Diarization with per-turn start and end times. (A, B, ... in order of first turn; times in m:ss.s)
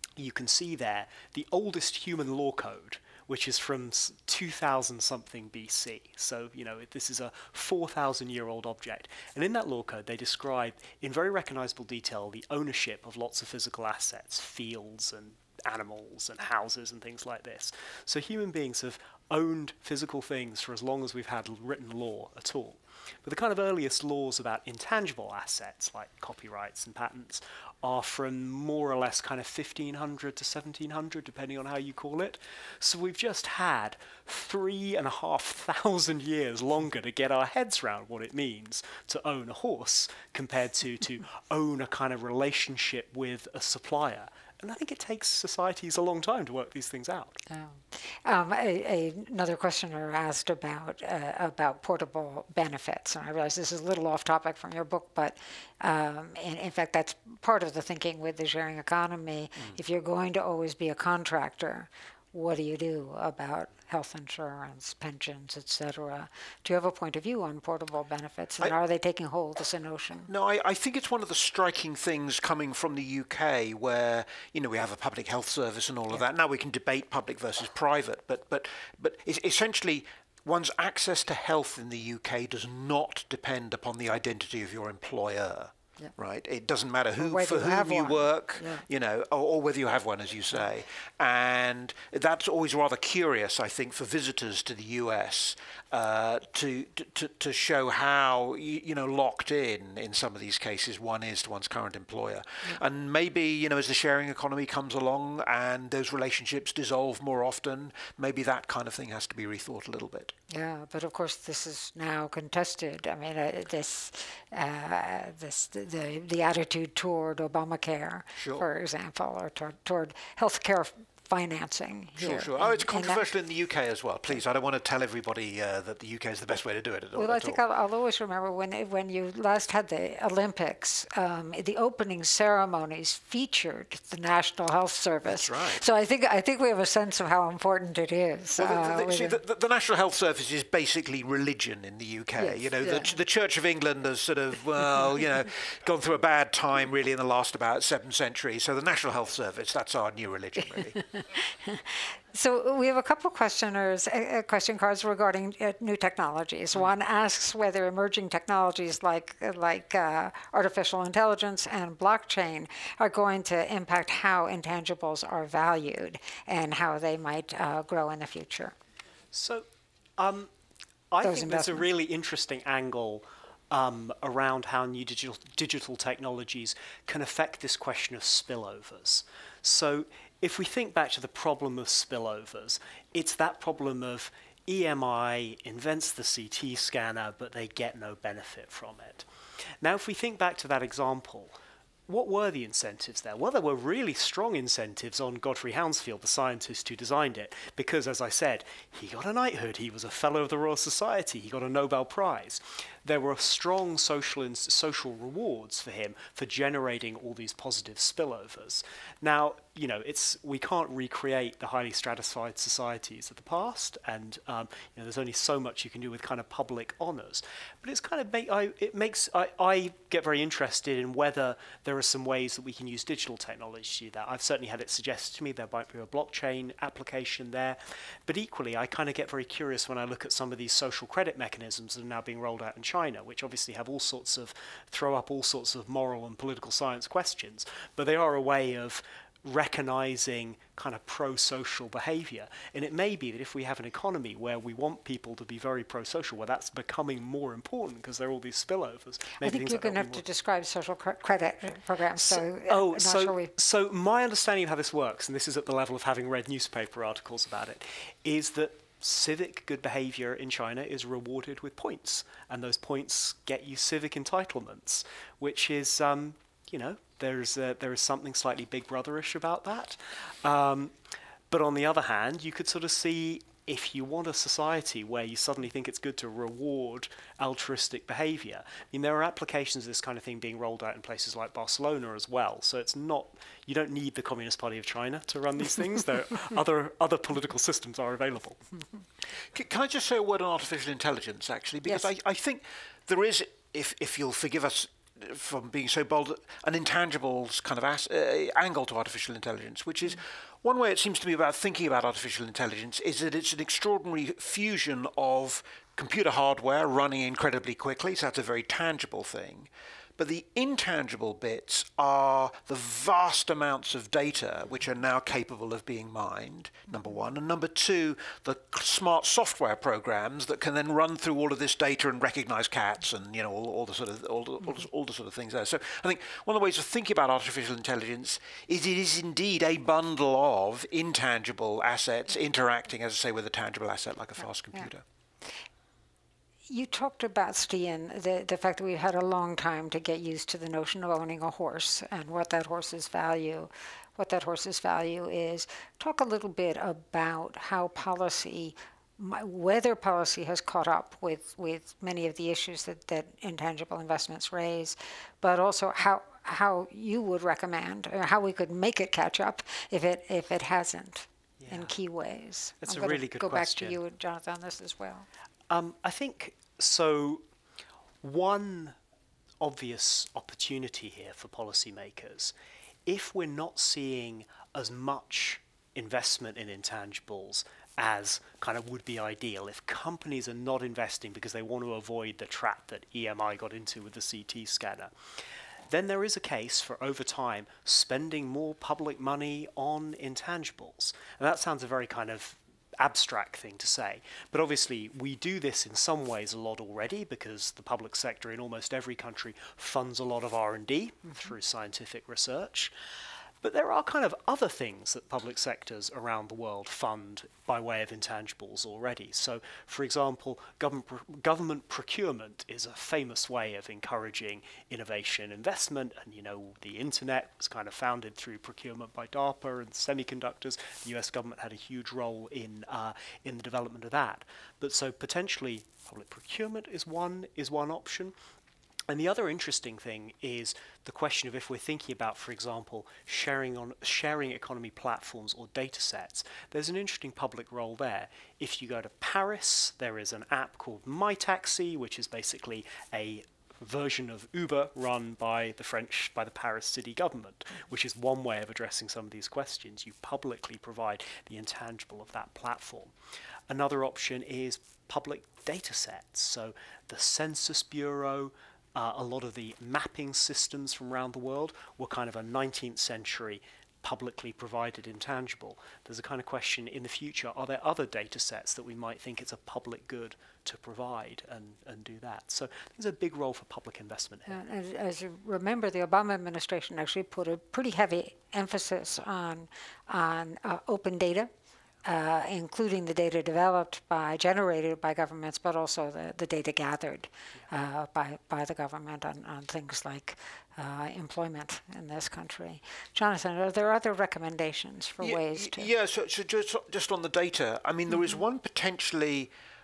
0:00.2-0:47.4 A
0:47.5-1:10.3 B
1:10.3-1:50.3 C
1:27.2-1:28.8 B
1:50.5-2:03.2 B
1:58.4-1:58.7 C
2:02.2-2:07.6 C
2:07.1-2:19.4 B
2:15.2-2:15.8 C
2:18.6-2:31.0 C
2:22.4-2:23.1 B
2:31.3-2:48.7 B
2:49.3-2:49.6 A
2:50.2-2:50.5 A
2:51.1-3:09.2 A
2:51.2-2:51.8 B
3:09.8-3:11.6 A
3:12.1-4:10.2 A
4:09.4-4:13.5 B
4:12.2-4:30.9 A
4:31.5-4:48.6 A
4:49.5-5:35.0 C
5:36.7-6:05.2 B
6:01.6-6:01.9 A
6:02.8-6:04.0 A
6:05.7-6:07.4 A
6:08.2-6:08.9 A
6:09.6-6:12.5 A
6:13.0-6:25.1 A
6:25.9-6:42.9 A
6:43.6-7:08.3 A
7:09.1-7:33.1 A
7:33.7-7:54.6 A
7:54.5-8:01.5 B
8:02.0-8:15.9 B
8:15.2-8:19.5 C